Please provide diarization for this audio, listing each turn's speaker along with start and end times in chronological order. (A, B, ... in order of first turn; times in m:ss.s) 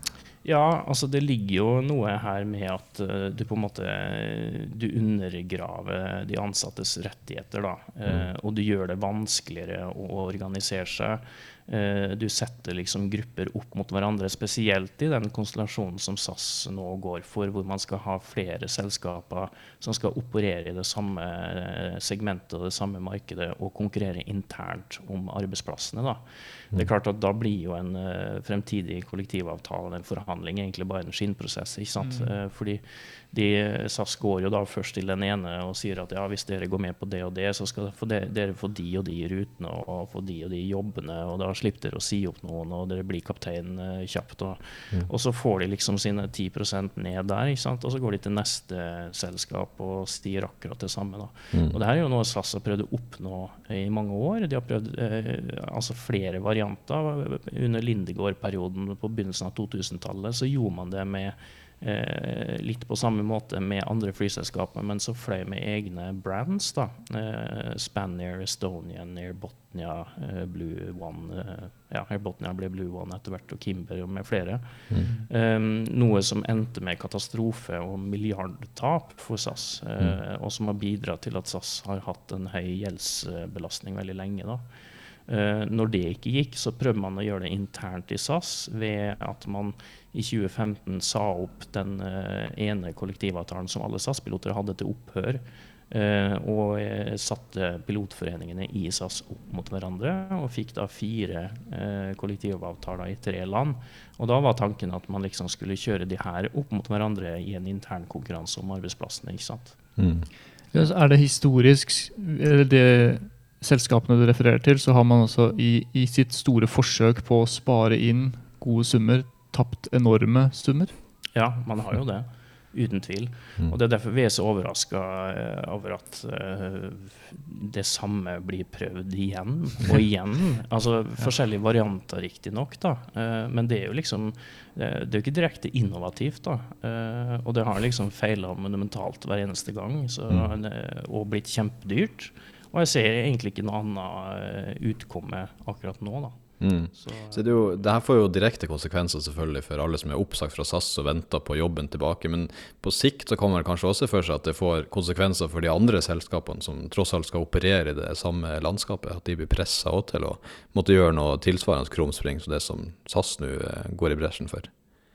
0:00.4-0:26.2 A
0:26.7-1:24.6 A
0:32.0-0:32.3 B
1:25.3-1:49.8 A
1:50.0-1:50.3 C
1:50.7-2:00.9 B
2:01.3-2:26.4 A
2:26.6-2:44.7 C
2:26.9-2:27.8 A